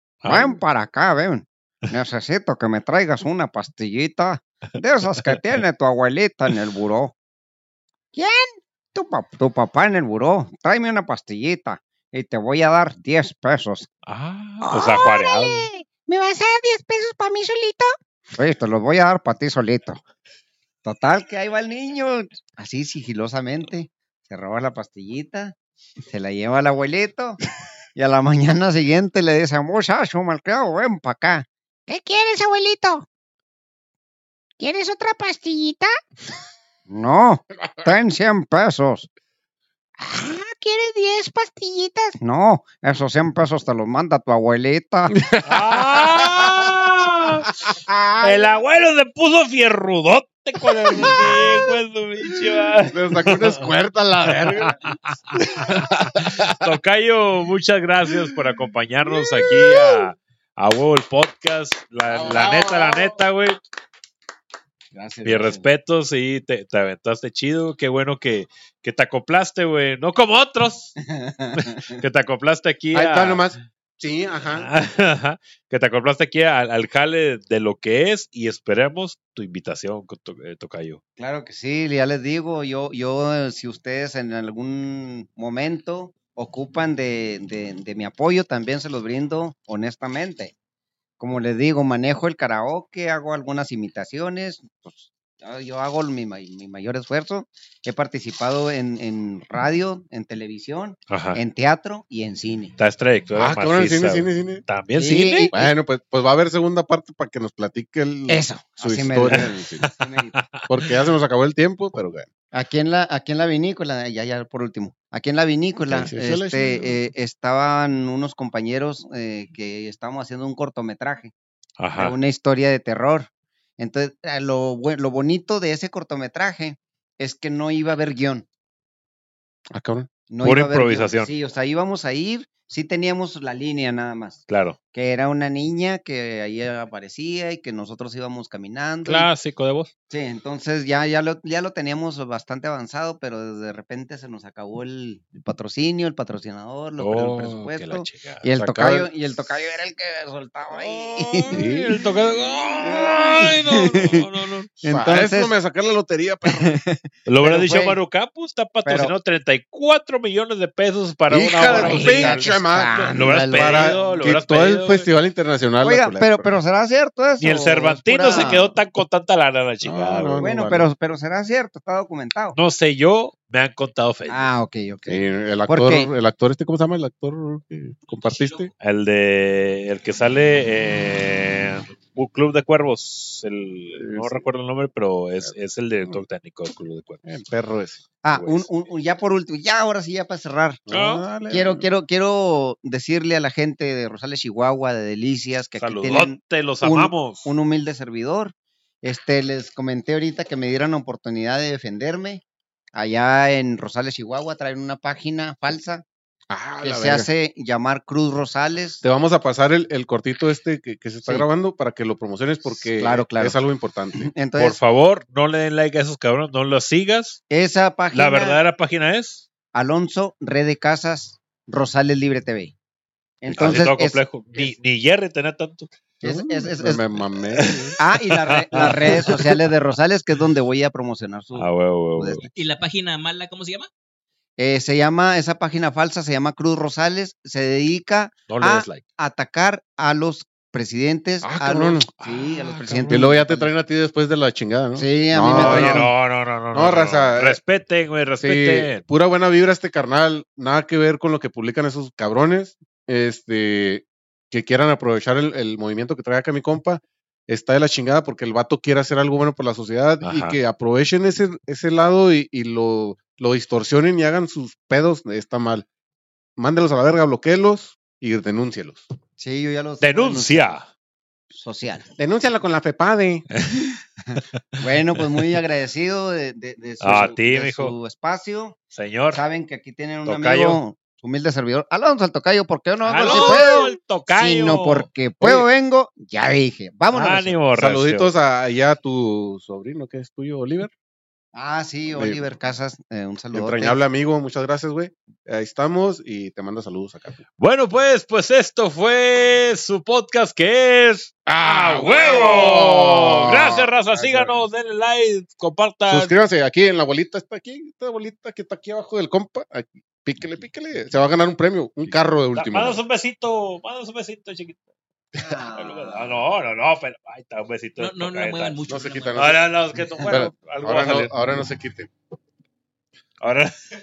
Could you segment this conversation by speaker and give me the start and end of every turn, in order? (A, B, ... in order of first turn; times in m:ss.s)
0:00.2-0:00.6 A
0:00.2-0:07.1 B
0:08.1-0:08.5 C
0:08.9-0:13.9 B
0:14.0-0:15.7 A
0:14.6-0:17.9 C
0:18.4-0:20.0 B
0:20.8-0:25.6 B
0:26.1-0:27.4 B
0:27.9-0:31.5 B
0:31.9-0:33.0 C
0:34.6-0:35.9 C
0:36.9-0:39.1 B
0:40.0-0:42.1 C
0:42.2-0:45.2 B
0:45.1-0:46.7 D
0:45.4-0:47.5 A
0:47.6-0:48.5 D
0:48.2-0:53.7 A
0:50.8-0:51.4 D
0:52.8-0:55.0 D
0:54.5-1:03.6 A
0:55.5-0:56.7 D
0:59.4-0:59.7 D
1:02.1-1:03.2 D
1:04.9-1:05.7 B
1:05.2-1:10.9 A
1:11.0-1:12.0 B
1:11.6-1:13.5 A
1:12.9-1:14.7 D
1:14.5-1:21.0 A
1:21.2-1:30.5 B
1:31.2-1:42.8 B
1:41.1-1:41.4 A
1:42.8-1:45.6 A
1:43.4-1:44.6 D
1:44.9-1:45.7 B
1:45.5-1:49.8 D
1:48.3-1:50.4 B
1:49.3-1:50.8 A
1:50.7-1:52.3 D
1:52.5-2:01.3 B
1:55.9-1:57.0 D
2:01.8-2:02.2 A
2:02.0-2:08.4 B
2:09.7-2:10.1 D
2:10.3-2:14.4 B
2:10.4-2:11.3 A
2:14.5-2:14.8 A
2:14.9-2:19.3 B
2:19.0-2:19.9 A
2:20.1-2:31.6 B
2:27.0-2:28.4 A
2:28.5-2:29.1 D
2:30.7-2:34.7 A
2:31.5-2:31.9 D
2:32.8-2:34.3 B
2:34.8-2:35.5 B
2:34.9-2:36.8 D
2:36.4-2:38.0 B
2:37.3-2:45.1 A
2:38.8-2:39.1 B
2:41.3-2:46.5 D
2:41.6-2:44.1 B
2:45.8-2:48.7 B
2:47.4-2:50.4 A
2:49.8-2:50.9 D
2:50.4-2:52.6 B
2:52.5-2:54.5 A
2:54.3-2:56.1 B
2:55.1-2:58.7 D
2:58.1-2:58.7 E
2:58.8-3:07.3 A
3:03.9-3:04.5 D
3:07.2-3:08.0 D
3:08.2-3:10.8 B
3:08.3-3:08.7 A
3:10.9-3:11.9 D
3:10.9-3:11.2 A
3:11.4-3:26.0 B
3:15.8-3:17.5 A
3:26.5-3:27.3 D
3:26.8-3:29.0 B
3:29.0-3:34.3 D
3:32.7-3:33.6 B
3:34.1-3:34.8 B
3:34.6-3:37.4 A
3:37.5-3:38.6 B
3:38.1-3:39.4 A
3:39.7-3:42.7 B
3:43.4-3:44.7 B
3:43.5-3:43.8 D
3:43.5-3:45.9 A
3:46.2-3:47.0 B
3:46.2-3:48.0 D
3:47.6-3:48.0 A
3:48.0-3:52.5 B
3:48.5-3:49.5 A
3:51.5-3:52.4 A
3:52.5-3:53.9 E
3:54.6-4:03.7 B
3:58.5-3:59.0 A
4:01.4-4:02.1 D
4:02.2-4:03.3 A
4:03.1-4:06.2 D
4:05.0-4:06.1 B
4:05.5-4:09.0 A
4:06.7-4:07.6 D
4:08.4-4:25.9 D
4:20.2-4:20.6 A
4:26.6-4:29.0 D
4:29.4-4:30.8 B
4:30.0-4:30.8 A
4:31.5-4:32.1 B
4:32.2-4:33.5 D
4:33.6-4:33.8 A
4:34.3-4:38.8 B
4:37.0-4:37.9 A
4:38.9-4:39.4 A
4:39.3-4:47.6 B
4:40.2-4:40.8 A
4:43.0-4:45.1 A
4:43.3-4:43.9 C
4:45.4-4:45.6 D
4:47.1-4:48.3 A
4:47.7-4:50.9 D
4:51.5-4:54.0 B
4:52.1-4:52.4 D
4:53.5-4:57.4 D
4:57.6-5:06.3 A
5:01.4-5:04.5 D
5:06.1-5:13.0 D
5:12.5-5:14.8 A
5:15.4-5:16.4 B
5:15.5-5:18.8 A
5:18.0-5:19.6 E
5:18.9-5:19.6 D
5:19.3-5:21.4 A
5:20.2-5:22.1 D
5:23.4-5:23.7 A